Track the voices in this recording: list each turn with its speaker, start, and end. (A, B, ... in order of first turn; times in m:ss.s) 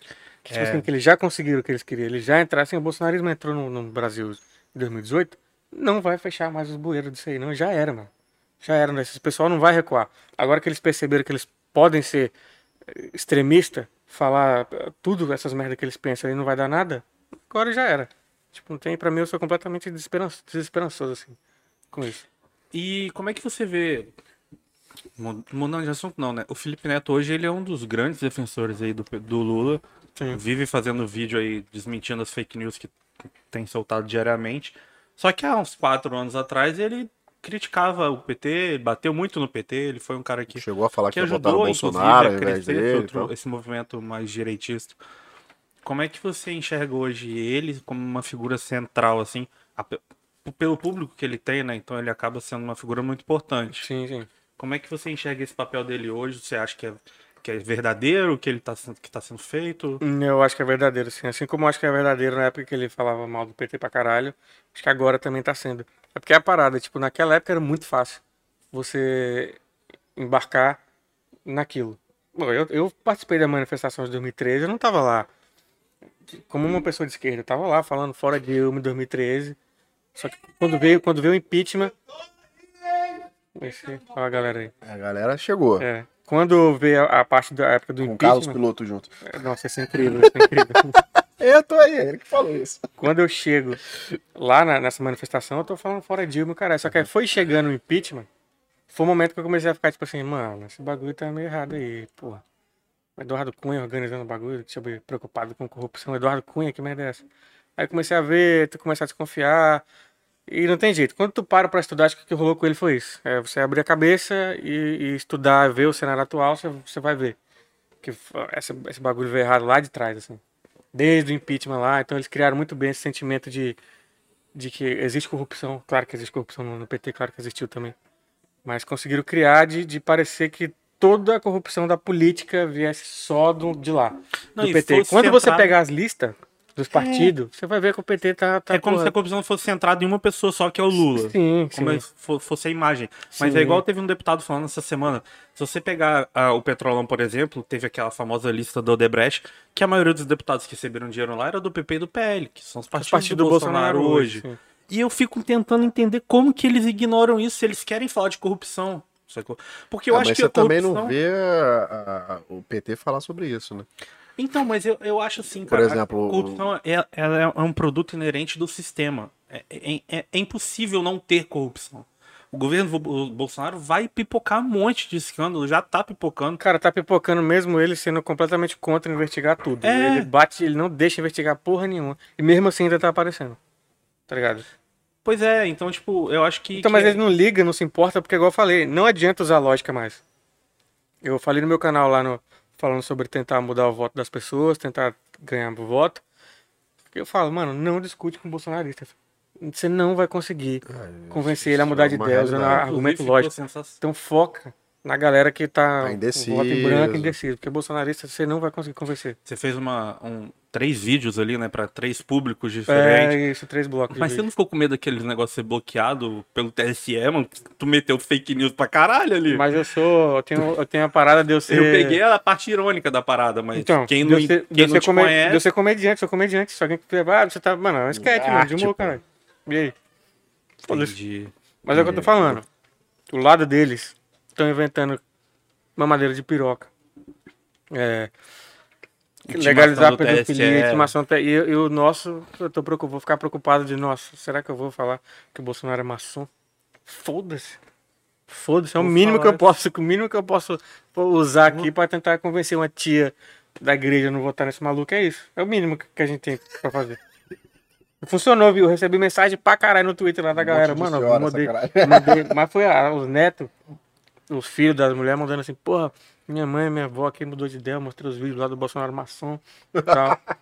0:00.4-0:08.1 A
0:00.5-0:00.8 B
0:08.6-0:12.3 A
0:12.9-0:21.4 A
0:21.9-0:22.2 A
0:22.7-0:24.1 B
0:25.2-0:32.9 B
0:33.5-0:45.0 B
0:40.5-0:43.3 C
0:45.8-0:53.9 B
0:53.7-0:54.3 A
0:54.6-1:00.0 B
1:00.0-1:08.2 A
1:08.7-1:09.6 A
1:10.2-1:10.8 A
1:11.4-1:15.3 A
1:16.4-1:19.6 A
1:20.2-1:21.9 A
1:23.6-1:24.7 A
1:24.8-1:25.8 C
1:25.8-1:28.6 A
1:28.0-1:29.1 C
1:29.2-1:31.0 A
1:31.4-1:32.9 C
1:33.0-1:33.8 A
1:34.3-1:38.3 A
1:38.9-1:42.4 A
1:43.2-1:47.2 A
1:47.8-1:49.8 A
1:50.5-1:57.4 A
1:58.0-2:00.4 A
2:00.9-2:03.8 A
2:04.5-2:07.9 A
2:08.6-2:19.1 A
2:14.6-2:15.7 B
2:16.9-2:17.3 B
2:18.7-2:41.1 B
2:20.9-2:22.0 A
2:23.4-2:23.8 A
2:32.9-2:34.6 A
2:40.1-2:43.9 C
2:44.4-2:56.6 B
2:45.7-2:46.6 C
2:56.6-3:03.6 A
2:59.8-3:00.3 B
3:04.3-3:04.6 A
3:05.2-3:07.2 B
3:06.7-3:10.2 A
3:11.2-3:16.2 A
3:17.1-3:29.4 A
3:20.8-3:22.9 C
3:22.8-3:24.0 B
3:26.0-3:27.4 C
3:29.4-3:33.4 B
3:32.9-3:34.4 A
3:34.1-3:39.6 B
3:39.5-3:42.2 A
3:41.7-3:45.6 B
3:43.7-3:49.9 A
3:48.1-3:49.2 C
3:50.9-3:51.1 A
3:50.9-3:51.5 B
3:51.8-3:52.6 A
3:51.9-3:52.6 C
3:53.3-3:55.2 A
3:56.0-3:56.9 A
3:57.9-3:58.3 A
3:59.4-4:01.1 B
3:59.5-4:06.5 A
4:07.0-4:07.8 A
4:08.5-4:17.2 A
4:09.0-4:09.7 B
4:18.2-4:23.7 A
4:20.5-4:22.5 C
4:24.5-4:30.4 A
4:30.0-4:30.3 C